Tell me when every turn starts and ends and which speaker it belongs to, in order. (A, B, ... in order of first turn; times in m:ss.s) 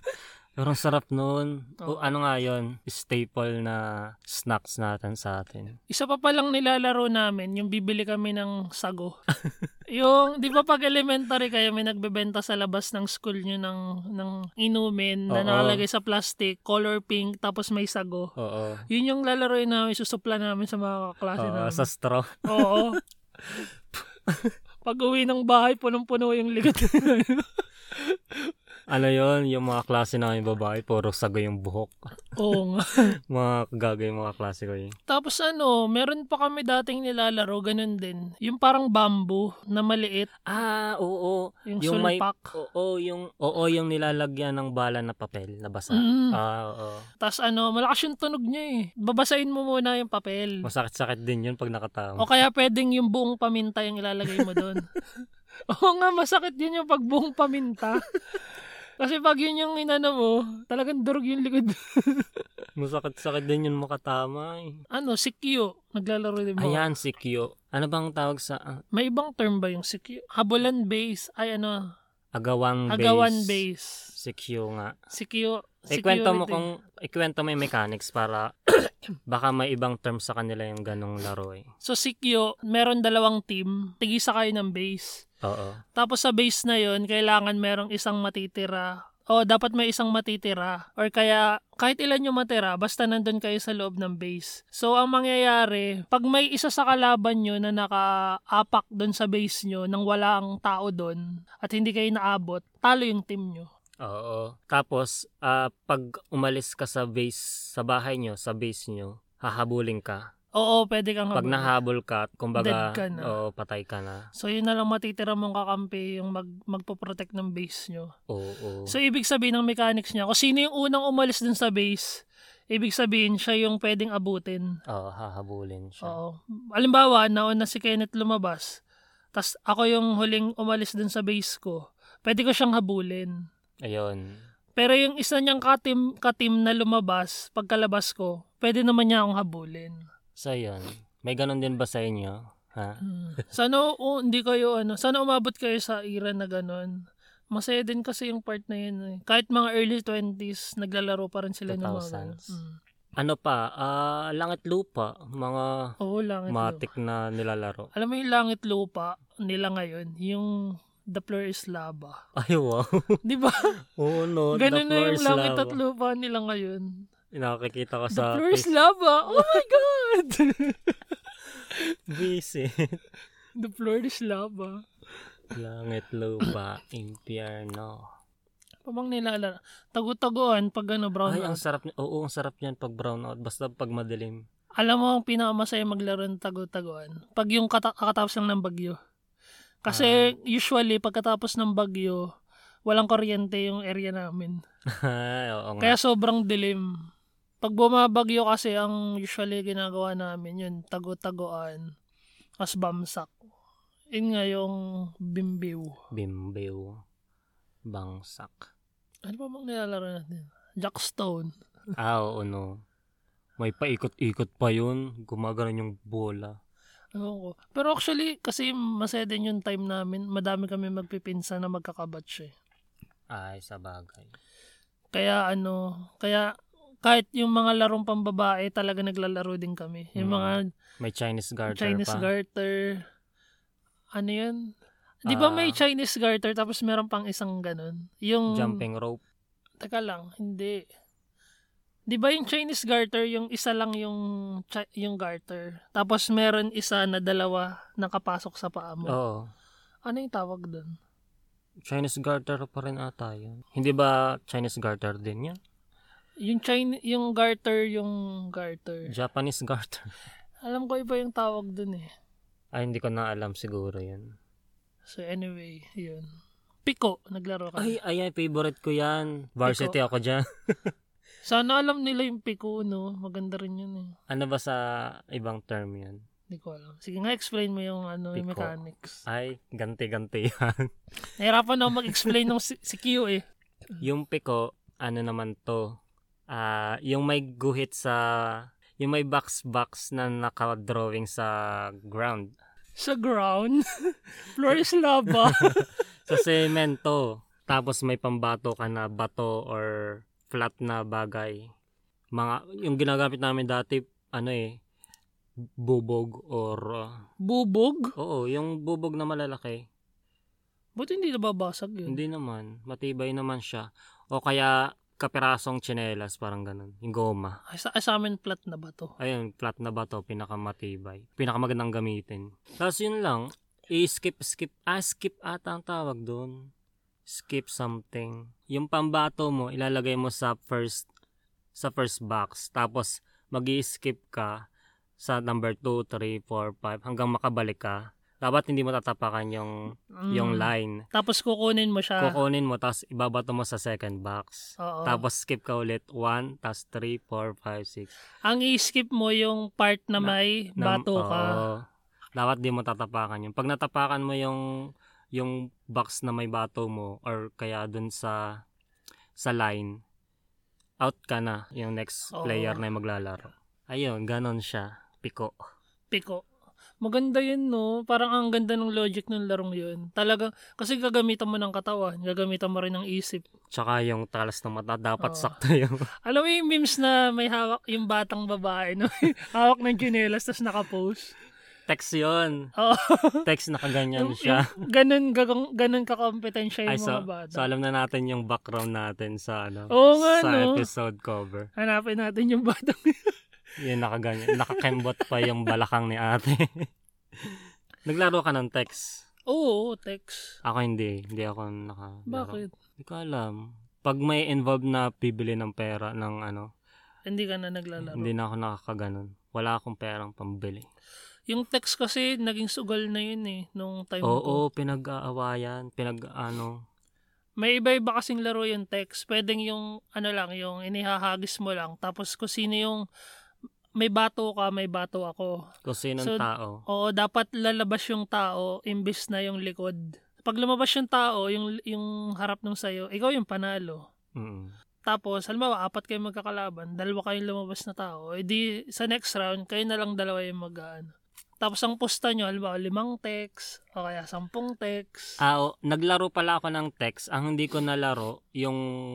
0:00.6-0:05.8 A
0:05.9-0:09.1 B
0:09.4-0:09.7 A
0:09.9-0:18.3 B
0:15.3-0:15.8 A
0:18.4-0:18.8 A
0:18.9-0:21.9 B
0:21.4-0:23.0 A
0:22.5-0:23.0 B
0:24.8-0:28.5 B
0:28.9-0:32.0 A
0:32.4-0:33.0 B
0:33.3-0:35.0 A
0:35.1-0:40.3 B
0:40.5-0:47.0 A
0:41.7-0:42.5 B
0:45.9-0:46.4 B
0:47.2-0:50.6 B
0:50.6-0:52.3 A
0:52.2-0:54.9 B
0:54.4-0:54.6 A
0:55.7-0:58.4 B
0:59.0-1:02.3 B
1:02.8-1:04.8 A
1:04.9-1:06.9 B
1:06.6-1:08.8 A
1:08.9-1:11.8 B
1:12.4-1:13.6 A
1:12.9-1:14.1 B
1:14.2-1:15.0 A
1:15.1-1:16.7 B
1:15.9-1:18.7 A
1:19.3-1:21.7 A
1:21.8-1:25.2 B
1:25.4-1:25.8 A
1:26.0-1:43.7 B
1:44.0-1:50.2 A
1:50.6-1:51.7 B
1:51.4-1:54.3 A
1:52.6-1:53.3 B
1:54.4-1:58.1 B
1:58.3-1:59.0 A
1:58.9-2:04.7 B
2:04.9-2:06.2 A
2:06.0-2:08.8 B
2:09.4-2:13.3 B
2:13.8-2:14.3 A
2:14.8-2:20.0 B
2:20.4-2:23.0 A
2:23.0-2:27.0 B
2:27.5-2:32.8 B
2:31.7-2:32.5 A
2:33.2-2:35.9 A
2:36.0-2:36.8 B
2:36.5-2:37.9 A
2:38.0-2:40.5 B
2:41.1-2:42.2 B
2:42.4-2:43.2 A
2:43.2-2:43.8 B
2:44.0-2:45.8 A
2:44.5-2:46.9 B
2:47.3-2:48.7 A
2:48.1-2:51.2 B
2:49.3-2:49.7 A
2:52.1-2:53.0 A
2:53.6-2:54.8 B
2:55.5-2:58.0 A
2:58.9-3:01.6 B
3:01.3-3:04.4 A
3:04.8-3:09.0 B
3:09.8-3:12.2 B
3:09.9-3:10.2 A
3:12.9-3:14.6 B
3:14.9-3:16.0 A
3:15.8-3:16.9 B
3:17.6-3:21.9 B
3:22.6-3:23.4 B
3:24.2-3:26.0 B
3:26.1-3:27.0 A
3:27.9-3:28.7 A
3:29.3-3:31.5 B
3:32.0-3:32.8 A
3:33.6-3:36.6 A
3:37.2-3:42.5 B
3:43.3-3:44.3 A
3:45.1-3:46.5 B
3:47.0-3:50.6 B
3:50.2-3:52.3 A
3:51.7-3:53.0 B
3:54.2-3:54.6 B
3:55.3-3:58.8 B
3:55.3-3:55.8 A
3:58.5-3:59.2 A
3:59.8-4:00.8 B
4:02.1-4:09.2 B
4:09.1-4:09.5 A
4:10.1-4:11.0 B
4:11.8-4:15.6 A
4:16.4-4:19.1 B
4:19.1-4:20.1 A
4:20.6-4:22.1 B
4:22.7-4:24.3 A
4:25.1-4:26.3 B
4:26.8-4:28.0 B
4:27.8-4:30.9 A
4:29.7-4:30.0 B
4:31.5-4:34.2 B
4:34.3-4:36.2 A
4:36.5-4:39.2 B
4:38.4-4:38.7 A
4:39.3-4:40.9 A
4:41.4-4:43.4 B
4:44.0-4:46.0 A
4:46.5-4:52.5 A
4:53.0-4:56.0 B
4:55.4-5:01.7 A
5:02.4-5:04.8 A
5:05.8-5:07.1 A
5:07.4-5:08.1 B
5:08.2-5:09.9 A
5:11.0-5:12.2 B
5:12.1-5:17.6 A
5:17.7-5:19.1 B
5:19.2-5:26.7 A
5:27.3-5:31.1 A
5:31.8-5:34.6 A
5:35.2-5:39.7 A
5:40.2-5:42.4 B
5:40.3-5:41.0 A
5:42.2-5:48.1 A
5:44.8-5:45.2 B
5:48.5-5:51.6 B
5:50.2-5:51.8 A
5:52.4-5:54.6 A
5:55.4-5:58.6 A
5:59.4-6:00.0 A
6:01.0-6:05.6 A
6:02.4-6:02.8 B
6:06.1-6:06.4 B
6:07.0-6:13.4 B
6:13.7-6:16.1 A
6:15.2-6:15.5 B
6:16.2-6:21.3 B
6:21.9-6:22.7 A
6:22.8-6:23.5 B
6:23.5-6:24.7 A
6:24.1-6:27.6 B
6:26.9-6:31.7 A
6:29.9-6:30.8 B
6:31.8-6:33.3 B
6:33.8-6:36.9 A
6:34.5-6:35.2 B
6:37.4-6:39.2 A
6:39.5-6:40.5 B
6:40.6-6:46.7 A
6:42.3-6:42.7 B
6:47.3-6:48.3 B
6:48.1-6:50.9 A
6:51.5-6:54.6 B
6:54.2-6:56.8 A
6:57.6-7:03.0 B
7:04.0-7:05.6 B
7:05.8-7:06.8 A
7:06.2-7:14.0 B
7:14.4-7:14.7 A
7:15.1-7:21.1 B
7:21.6-7:25.4 B
7:25.4-7:28.8 A